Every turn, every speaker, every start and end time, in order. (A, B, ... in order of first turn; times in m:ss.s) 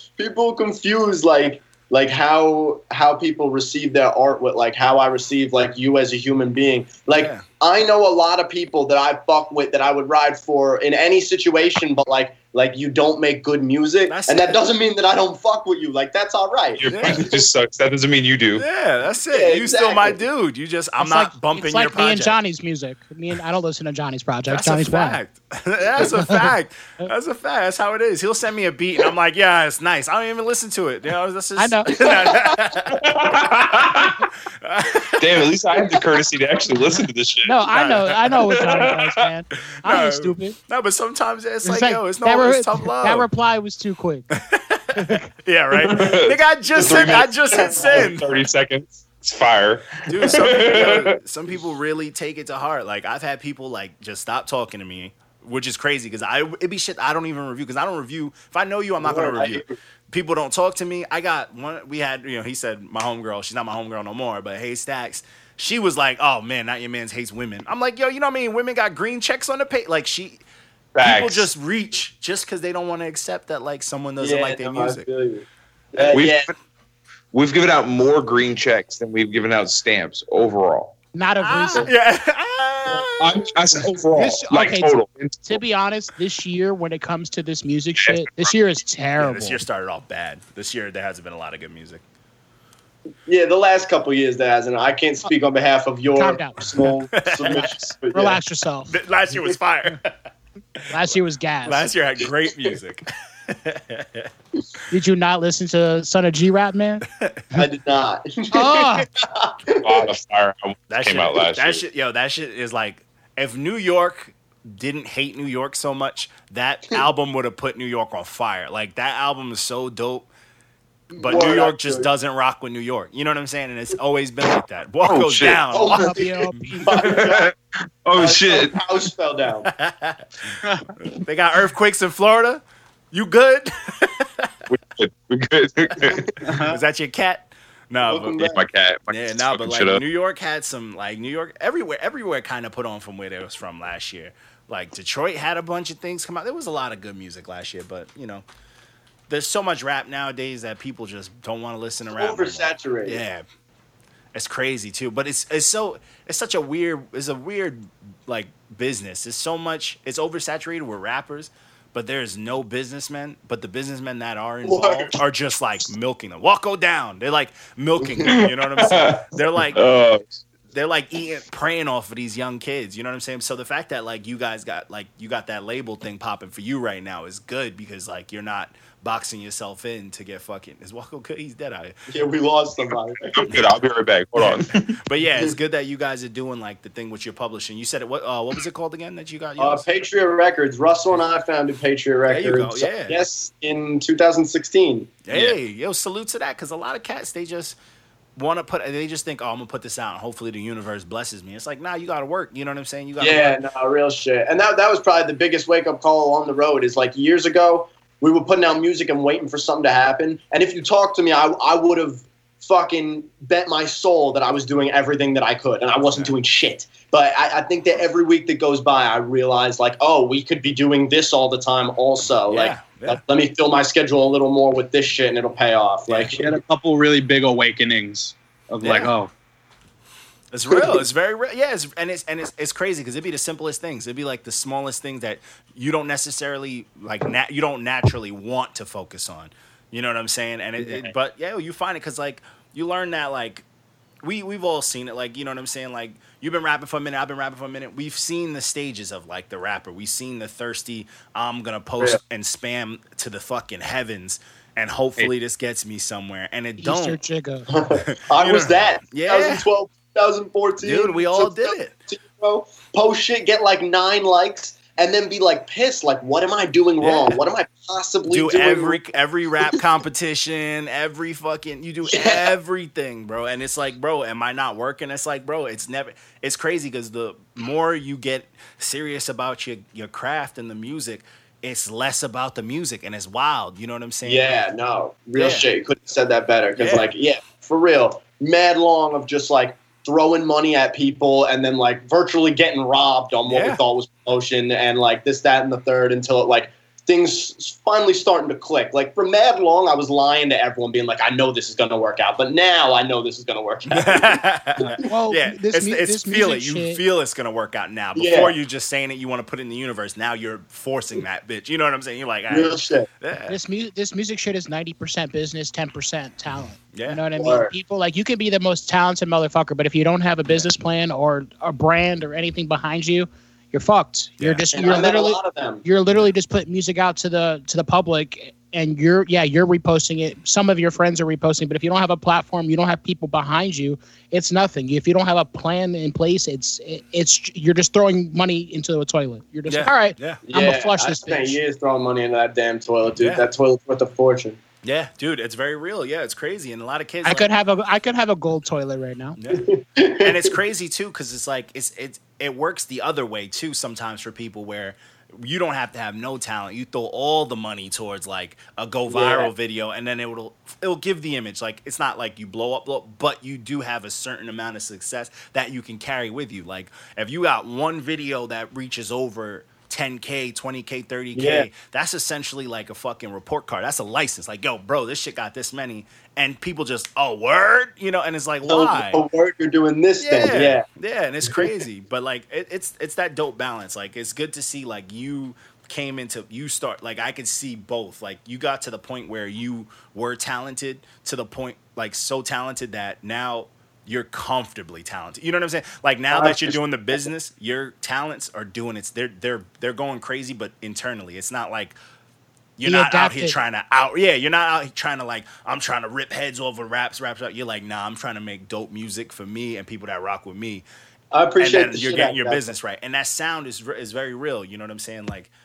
0:00.2-0:17.4 A
0:07.1-0:07.4 B
0:14.1-0:14.6 B
0:16.8-0:18.6 C
0:16.9-0:17.2 B
0:18.5-0:22.3 B
0:19.3-0:20.2 A
0:21.0-0:25.2 D
0:24.5-0:33.0 B
0:31.6-0:31.9 D
0:32.9-0:34.2 C
0:34.6-0:35.5 B
0:35.2-0:37.6 C
0:37.4-0:40.5 D
0:37.7-0:38.2 B
0:38.4-0:39.3 C
0:39.8-0:43.3 B
0:41.6-0:44.2 D
0:44.3-0:48.3 B
0:44.9-0:45.2 D
0:45.7-0:51.2 C
0:47.5-0:48.1 A
0:50.1-1:10.4 B
0:59.0-0:59.7 A
1:10.9-1:11.5 C
1:11.0-1:15.0 B
1:14.2-1:16.5 A
1:16.0-1:16.5 C
1:17.3-1:20.9 C
1:21.1-1:21.9 D
1:21.4-1:23.5 B
1:23.2-1:25.6 C
1:24.1-1:29.6 D
1:28.0-1:28.3 C
1:29.2-1:32.0 B
1:33.3-1:38.4 A
1:36.2-1:36.7 D
1:37.2-1:37.7 B
1:37.5-1:38.9 D
1:38.9-1:40.1 B
1:40.9-1:41.9 D
1:41.6-1:44.3 B
1:44.9-1:47.0 D
1:47.1-1:47.4 B
1:47.5-1:50.1 A
1:48.5-1:49.1 D
1:49.8-1:51.8 C
1:50.9-2:00.2 B
2:01.1-2:02.1 A
2:01.2-2:06.6 B
2:05.0-2:05.8 C
2:05.7-2:07.5 A
2:05.9-2:07.0 D
2:06.9-2:08.8 C
2:08.2-2:09.7 A
2:09.6-2:10.6 B
2:11.1-2:14.5 B
2:14.7-2:16.2 C
2:16.0-2:16.3 A
2:16.4-2:16.8 E
2:16.6-2:18.4 B
2:18.0-2:18.6 A
2:18.4-2:20.0 C
2:19.1-2:28.4 B
2:29.3-2:33.4 B
2:32.1-2:33.2 A
2:34.3-2:49.8 B
2:44.6-2:45.1 A
2:48.0-2:48.3 A
2:48.3-2:50.4 C
2:50.7-3:01.9 B
3:02.1-3:03.6 A
3:03.3-3:04.7 C
3:04.9-3:09.9 B
3:09.6-3:15.6 A
3:12.3-3:13.2 B
3:15.3-3:17.8 B
3:18.4-3:23.6 B
3:23.2-3:46.5 A
3:42.5-3:43.2 B
3:46.3-3:49.3 E
3:48.8-3:49.1 B
3:50.5-4:03.6 B
3:50.7-3:51.0 A
4:04.2-4:17.2 B
4:16.8-4:17.7 D
4:17.7-4:29.0 A
4:17.9-4:19.6 B
4:20.8-4:21.9 B
4:27.0-4:27.4 B
4:28.3-4:44.6 B
4:32.1-4:32.5 A
4:44.2-5:05.0 A
4:45.4-4:45.7 B
4:46.8-4:47.1 B
4:53.5-4:53.8 B
5:03.9-5:13.6 B
5:05.1-5:07.0 D
5:08.2-5:08.5 A
5:12.5-5:13.1 A
5:13.5-5:41.6 D
5:16.9-5:17.2 B
5:17.4-5:17.7 A
5:24.7-5:25.8 A
5:39.7-5:40.4 B
5:40.4-5:44.6 A
5:43.2-5:43.4 B
5:44.8-5:47.5 B
5:47.2-5:49.4 D
5:49.4-5:49.6 B
5:49.5-5:50.5 A
5:50.2-6:19.2 B
5:59.1-5:59.5 A
6:11.4-6:11.7 A
6:18.7-6:20.8 A
6:20.2-6:42.0 B
6:21.4-6:21.7 A
6:36.3-6:36.8 A
6:42.8-6:50.8 B
6:42.8-6:43.6 D
6:51.3-6:52.7 A
6:51.6-6:55.5 B